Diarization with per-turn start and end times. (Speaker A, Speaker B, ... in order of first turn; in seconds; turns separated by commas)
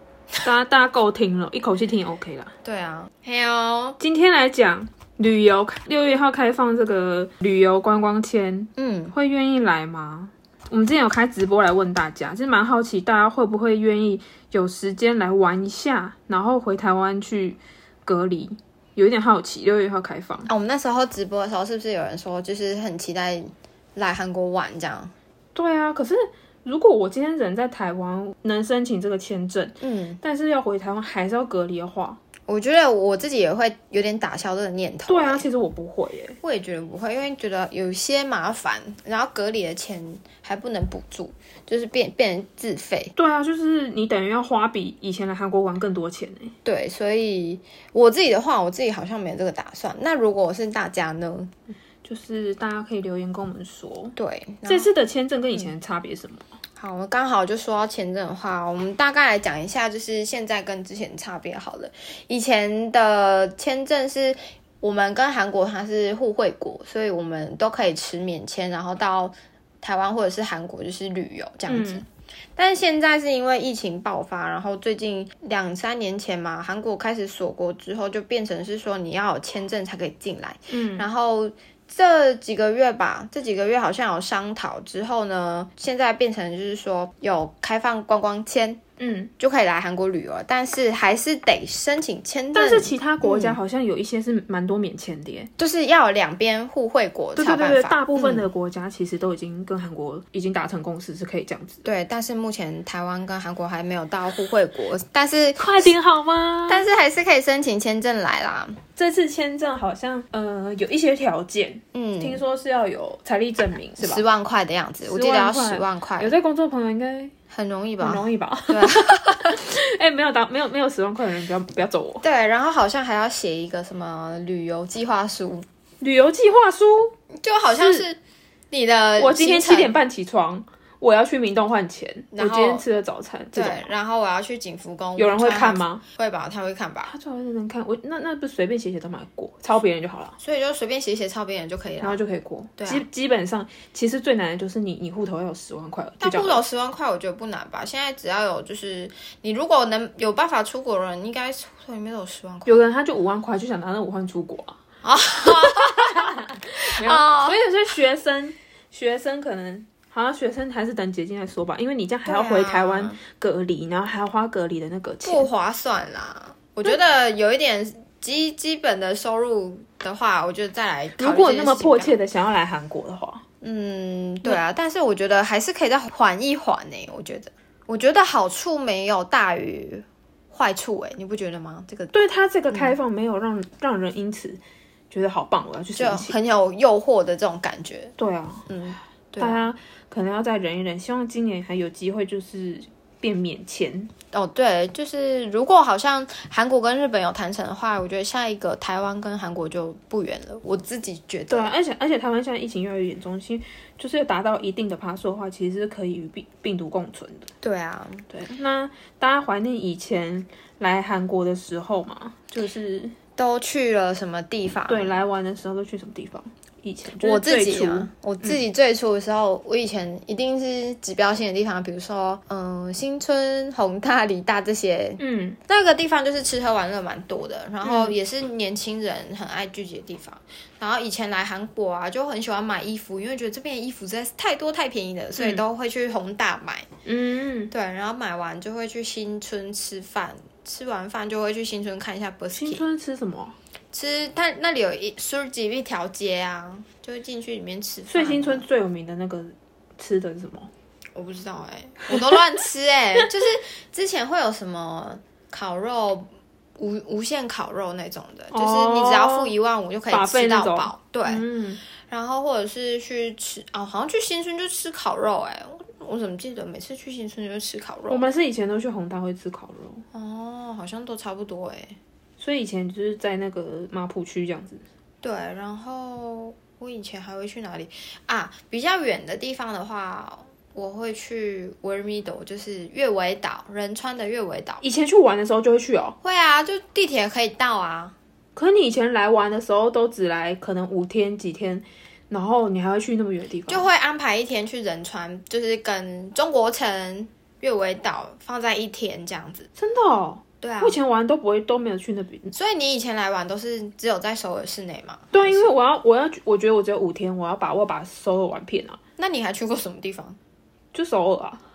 Speaker A: 0.4-2.5, Speaker B: 2.6-4.0, Speaker A: 4.0-20.5, Speaker B: 8.8-9.1, Speaker B: 20.5-25.1, Speaker A: 25.5-32.2, Speaker B: 29.8-30.2, Speaker B: 32.5-35.4, Speaker A: 35.1-36.4, Speaker B: 36.4-43.1, Speaker A: 43.1-46.5, Speaker B: 46.6-51.5, Speaker A: 52.0-54.1, Speaker B: 54.1-54.9, Speaker A: 54.7-56.5, Speaker B: 56.8-88.8, Speaker A: 71.7-72.0, Speaker A: 80.7-81.0, Speaker A: 89.0-89.3, Speaker B: 89.4-93.6, Speaker A: 92.5-95.5, Speaker B: 95.6-98.5, Speaker A: 97.3-101.8, Speaker B: 101.8-105.9, Speaker A: 105.6-106.8, Speaker B: 106.7-108.8, Speaker A: 109.0-114.2, Speaker B: 111.9-112.4, Speaker B: 114.0-116.3, Speaker A: 115.0-117.3, Speaker B: 117.5-119.6, Speaker A: 118.0-122.2, Speaker B: 122.2-125.7, Speaker A: 126.0-127.1, Speaker B: 127.3-128.2, Speaker A: 127.8-128.1, Speaker B: 128.7-129.9, Speaker A: 129.2-133.8, Speaker B: 132.3-132.8, Speaker B: 133.5-137.1, Speaker A: 135.2-136.0, Speaker A: 137.1-140.3, Speaker B: 140.4-142.2, Speaker A: 142.0-146.6, Speaker B: 142.8-143.0, Speaker B: 146.2-152.8, Speaker A: 152.7-154.8, Speaker B: 155.0-157.6, Speaker A: 155.4-165.5, Speaker B: 162.2-163.2, Speaker B: 165.2-172.2, Speaker A: 171.2-173.4, Speaker B: 173.6-182.2, Speaker A: 182.1-184.6, Speaker B: 182.7-182.9, Speaker A: 185.1-186.3, Speaker B: 185.9-188.1, Speaker A: 188.2-188.7, Speaker B: 188.7-189.7, Speaker A: 189.4-194.1, Speaker B: 194.3-201.7, Speaker A: 201.5-207.5, Speaker B: 207.6-208.3, Speaker A: 208.3-213.1, Speaker B: 213.4-215.2, Speaker A: 214.9-218.6, Speaker B: 217.2-236.9, Speaker A: 225.2-225.6, Speaker A: 227.8-228.2, Speaker A: 237.0-237.7, Speaker B: 237.7-242.8, Speaker A: 242.5-243.5, Speaker B: 243.9-248.7, Speaker A: 248.1-250.7, Speaker B: 251.1-261.4, Speaker A: 252.1-252.4, Speaker A: 258.5-259.5, Speaker A: 260.1-261.8, Speaker B: 262.1-268.2, Speaker A: 268.1-270.0, Speaker B: 270.1-272.0, Speaker A: 272.4-274.8, Speaker B: 275.2-284.8, Speaker A: 284.8-286.1, Speaker B: 286.2-288.1, Speaker A: 288.6-293.9, Speaker B: 293.7-299.7, Speaker A: 299.8-302.5, Speaker B: 300.6-300.9, Speaker B: 302.5-305.6, Speaker A: 305.3-309.0, Speaker B: 309.2-310.4, Speaker A: 310.9-311.6